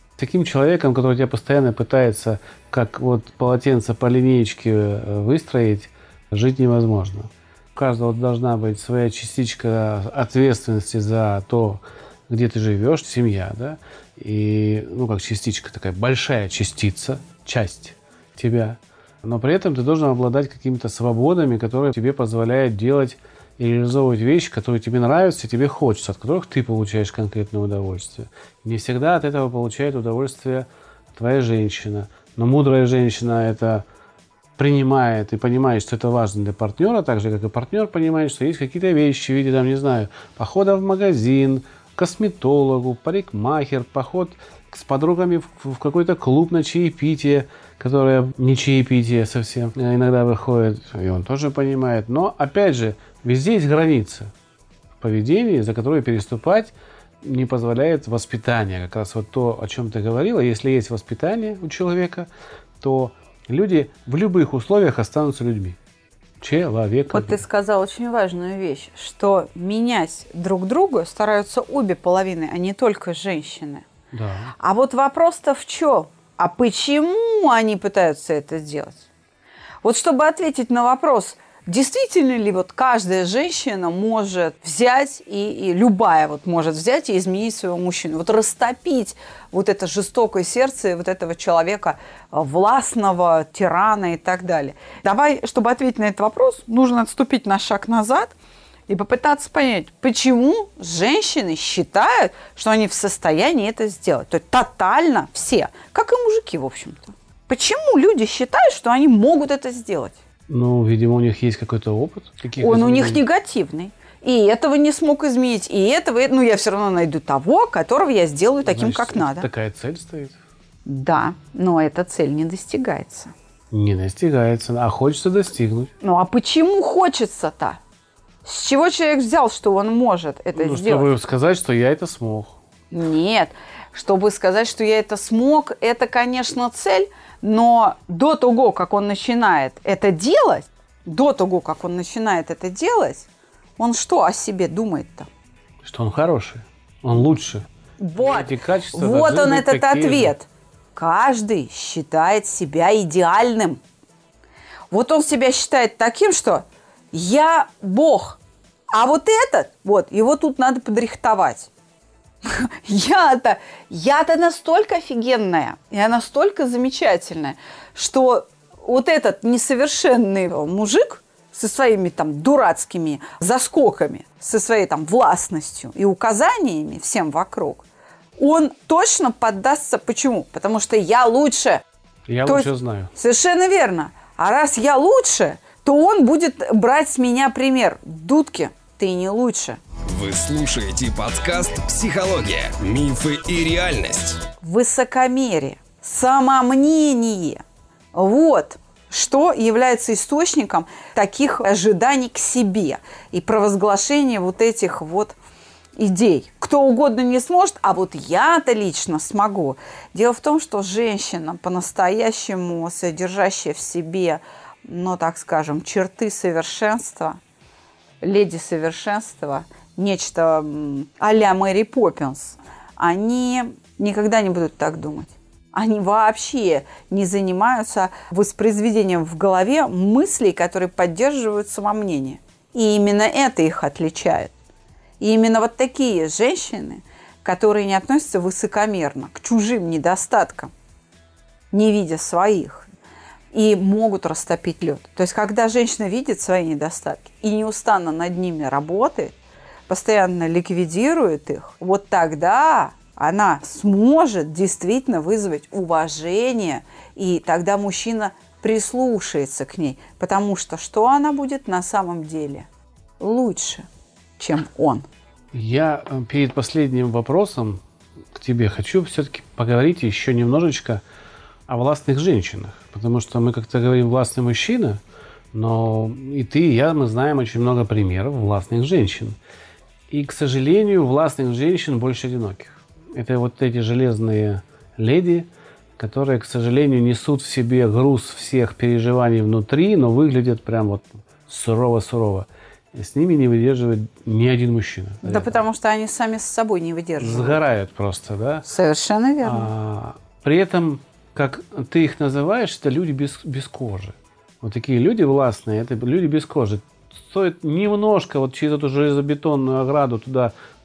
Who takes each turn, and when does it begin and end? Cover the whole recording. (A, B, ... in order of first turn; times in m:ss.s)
0:00.2-0:33.8 A
0:34.6-0:54.3 A
0:55.0-1:02.3 A
1:02.8-1:05.8 A
1:06.4-1:07.4 A
1:07.1-1:13.9 B
1:14.1-1:14.5 A
1:14.6-1:19.1 B
1:19.8-1:38.3 B
1:38.9-1:50.2 B
1:50.5-1:53.2 A
1:52.6-1:59.5 B
1:58.6-2:00.4 A
2:00.8-2:03.3 B
2:03.7-2:05.9 A
2:06.0-2:07.8 B
2:08.4-2:11.1 B
2:10.6-2:12.6 A
2:12.9-2:23.3 B
2:23.8-2:25.3 B
2:25.8-2:27.7 A
2:28.0-2:33.8 B
2:28.2-2:30.3 A
2:34.9-2:38.4 B
2:38.9-2:41.7 B
2:42.4-2:57.8 B
2:58.4-3:01.8 B
3:02.3-3:03.1 A
3:02.4-3:09.8 B
3:10.1-3:14.4 C
3:14.6-3:17.6 B
3:18.1-3:25.4 B
3:26.0-3:37.4 B
3:38.2-3:54.5 B
3:55.2-4:00.7 B
4:01.7-4:02.9 B
4:03.5-4:09.4 B
4:09.9-4:22.7 B
4:23.2-4:23.9 B
4:24.4-4:25.1 B
4:25.5-4:27.8 A
4:28.3-4:31.0 A
4:31.7-4:35.0 A
4:35.5-4:39.4 A
4:40.1-4:55.6 A
4:55.2-4:57.6 B
4:57.2-4:58.6 A
4:58.6-4:59.7 B
4:59.4-5:10.5 A